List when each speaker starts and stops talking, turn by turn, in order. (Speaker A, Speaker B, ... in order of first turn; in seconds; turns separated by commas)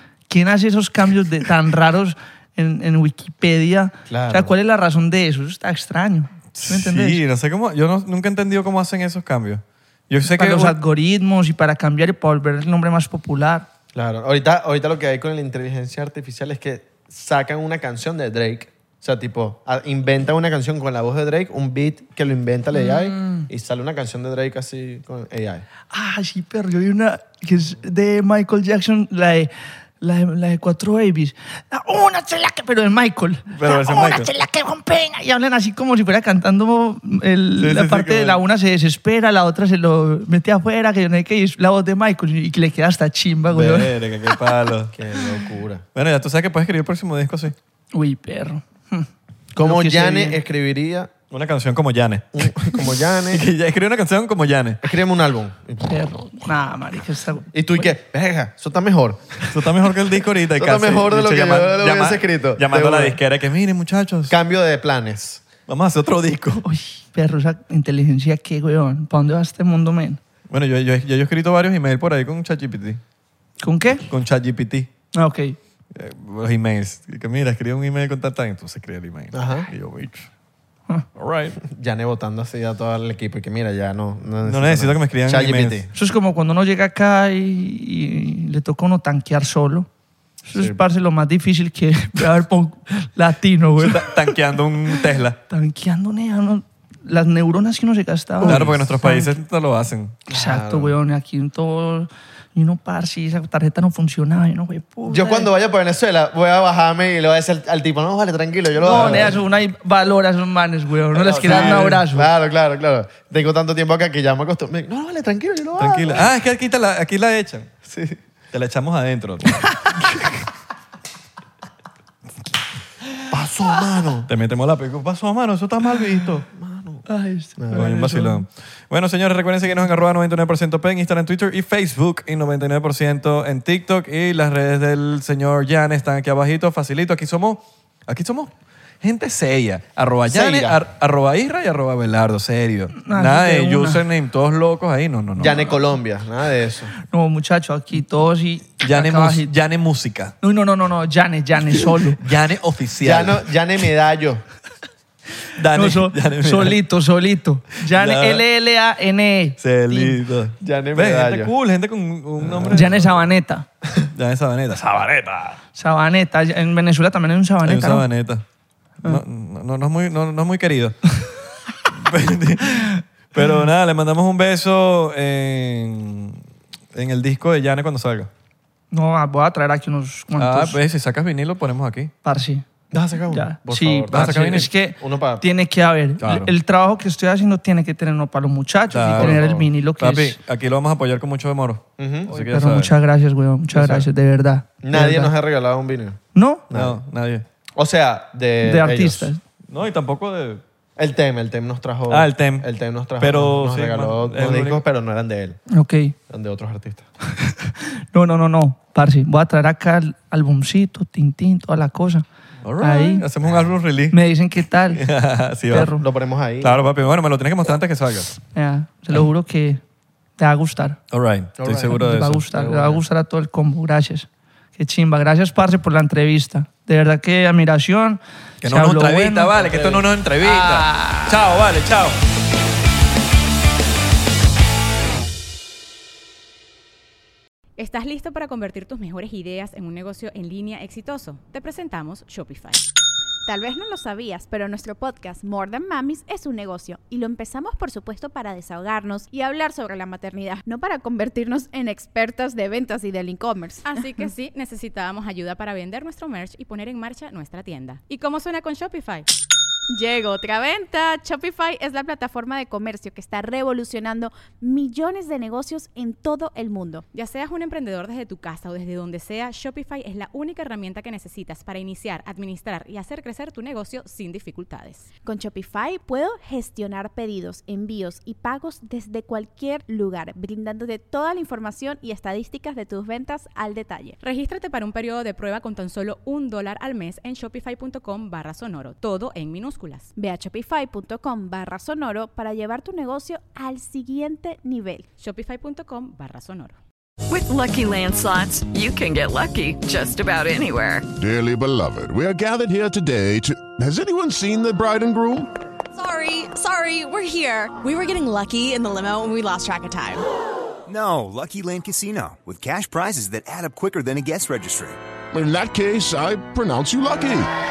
Speaker A: 0.3-7.2, Speaker B: 4.1-4.5, Speaker C: 6.5-10.8, Speaker A: 10.3-13.7, Speaker B: 13.9-25.6, Speaker A: 22.7-23.5, Speaker A: 25.9-44.0, Speaker C: 33.5-34.3, Speaker C: 37.6-38.4, Speaker C: 43.5-44.9, Speaker B: 44.9-45.9, Speaker C: 46.0-47.5, Speaker A: 47.9-49.1, Speaker B: 49.5-51.1, Speaker A: 49.6-50.4, Speaker C: 51.3-54.8, Speaker B: 52.3-53.5, Speaker B: 54.8-56.0, Speaker A: 55.8-57.5, Speaker B: 57.5-59.6, Speaker C: 59.5-64.3, Speaker B: 60.5-63.2, Speaker B: 64.3-65.5, Speaker C: 65.7-66.6, Speaker A: 66.6-70.2, Speaker C: 70.5-73.0, Speaker A: 73.6-74.1, Speaker C: 74.1-74.9, Speaker A: 75.1-75.6, Speaker C: 75.9-80.3, Speaker B: 79.3-79.7, Speaker C: 81.2-81.6, Speaker B: 81.6-85.9, Speaker C: 84.4-85.8, Speaker A: 85.9-89.9, Speaker A: 90.5-99.4, Speaker C: 93.8-95.4, Speaker C: 98.4-100.2, Speaker B: 98.4-98.9, Speaker B: 100.3-101.0, Speaker A: 100.3-105.5, Speaker B: 105.1-109.4, Speaker A: 108.8-112.3, Speaker C: 108.9-109.3, Speaker C: 111.2-112.0, Speaker B: 111.2-116.3, Speaker C: 115.8-117.7, Speaker B: 117.8-118.2, Speaker C: 118.5-120.3, Speaker B: 123.3-124.3, Speaker C: 124.3-126.5, Speaker B: 126.5-127.1, Speaker A: 127.1-128.4, Speaker B: 127.6-127.9, Speaker C: 127.7-145.7, Speaker B: 140.3-140.8, Speaker A: 142.9-144.0, Speaker B: 145.4-146.9, Speaker A: 147.1-149.5, Speaker C: 148.8-150.3, Speaker A: 150.4-152.2, Speaker C: 152.2-153.4, Speaker B: 153.0-154.4, Speaker C: 155.6-156.8, Speaker A: 155.7-160.2, Speaker C: 157.9-158.4, Speaker C: 159.6-163.2, Speaker B: 160.6-161.5, Speaker B: 162.4-162.8, Speaker A: 162.7-163.7, Speaker C: 164.1-165.6, Speaker A: 165.8-168.1, Speaker C: 167.6-168.4, Speaker C: 169.0-171.0, Speaker C: 171.9-176.4, Speaker C: 176.9-178.3, Speaker A: 178.9-180.8, Speaker C: 180.4-182.1, Speaker A: 182.2-182.7, Speaker B: 182.9-185.4, Speaker A: 183.3-190.4, Speaker C: 184.1-184.7, Speaker C: 186.2-186.5, Speaker C: 188.9-192.9, Speaker B: 189.2-189.7, Speaker B: 192.0-192.4, Speaker A: 192.4-195.3, Speaker B: 194.8-197.0, Speaker A: 196.3-196.7, Speaker C: 196.7-197.4, Speaker B: 197.8-199.3, Speaker A: 198.6-199.4, Speaker C: 199.7-200.6, Speaker B: 201.0-205.6, Speaker C: 202.1-202.7, Speaker C: 203.2-204.8, Speaker A: 205.7-206.2, Speaker B: 206.3-207.1, Speaker A: 207.4-212.2, Speaker C: 212.6-214.2, Speaker A: 212.8-213.2, Speaker A: 214.1-215.1, Speaker C: 214.9-215.9, Speaker A: 215.7-216.0, Speaker B: 215.9-216.9, Speaker C: 216.6-218.4, Speaker A: 218.5-219.8, Speaker A: 220.4-221.0, Speaker C: 221.1-222.4, Speaker B: 221.6-223.0, Speaker A: 221.9-231.4, Speaker C: 228.6-232.2, Speaker D: 237.8-242.8, Speaker E: 243.5-253.9, Speaker D: 253.9-259.3, Speaker E: 259.9-267.1, Speaker D: 267.1-275.1, Speaker E: 275.2-284.2, Speaker D: 284.2-290.1, Speaker E: 290.2-295.1, Speaker D: 295.2-296.8, Speaker F: 297.3-301.1, Speaker G: 301.2-305.5, Speaker H: 305.9-310.2, Speaker I: 310.9-315.0, Speaker G: 315.3-317.5